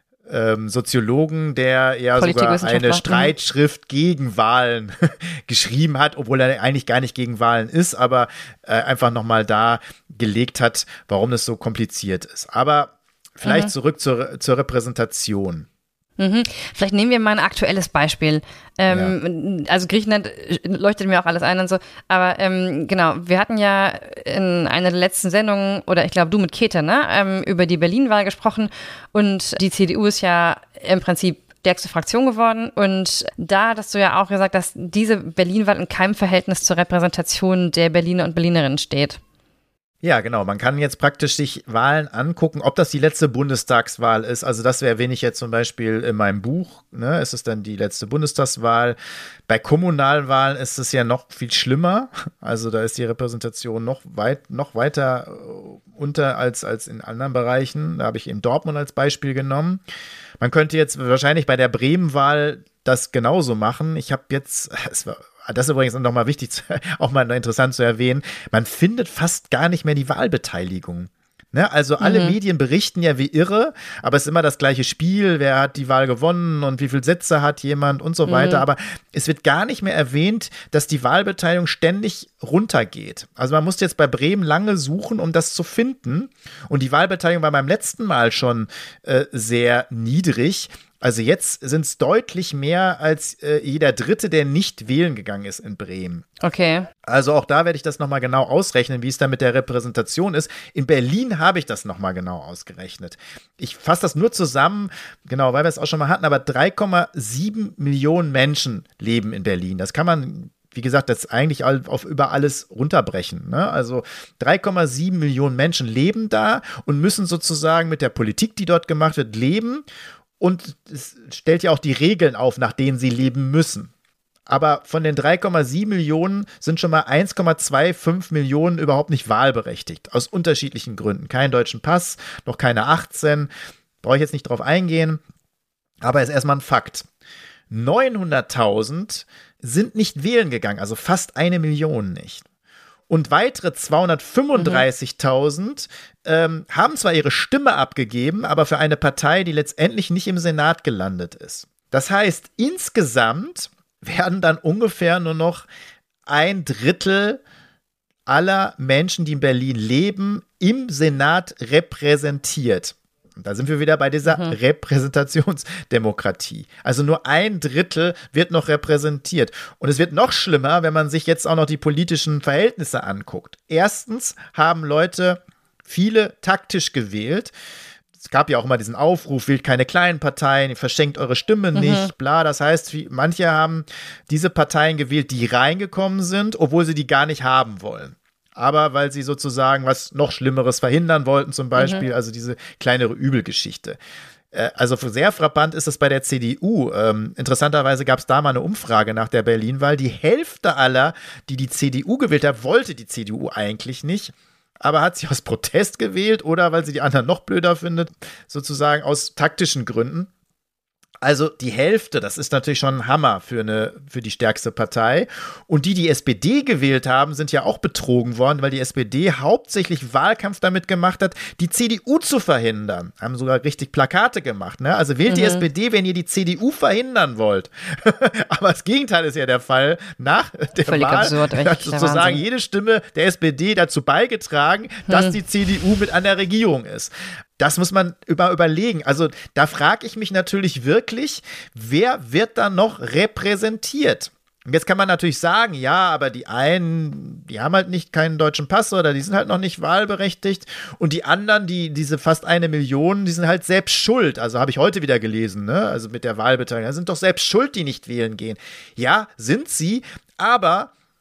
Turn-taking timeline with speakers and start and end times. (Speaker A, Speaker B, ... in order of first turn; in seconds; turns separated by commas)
Speaker A: 0.3-15.7, Speaker B: 2.2-3.3, Speaker B: 13.4-13.7, Speaker B: 16.2-39.2, Speaker A: 18.9-19.1, Speaker A: 40.0-49.0, Speaker A: 49.5-59.8, Speaker A: 60.4-96.2, Speaker B: 72.0-72.4, Speaker B: 78.3-78.6, Speaker B: 96.4-96.9, Speaker A: 97.1-119.8, Speaker A: 120.4-123.9, Speaker A: 124.5-133.5, Speaker A: 134.0-135.2, Speaker A: 136.0-137.1, Speaker A: 137.7-142.4, Speaker A: 143.1-155.7, Speaker B: 144.6-144.8, Speaker A: 156.3-157.4, Speaker A: 158.3-177.5, Speaker B: 164.3-164.6, Speaker A: 178.2-194.0, Speaker B: 181.8-182.1, Speaker B: 191.8-192.0, Speaker A: 194.5-210.3, Speaker A: 211.2-260.9, Speaker B: 225.3-225.7, Speaker B: 230.9-232.4, Speaker B: 235.1-235.4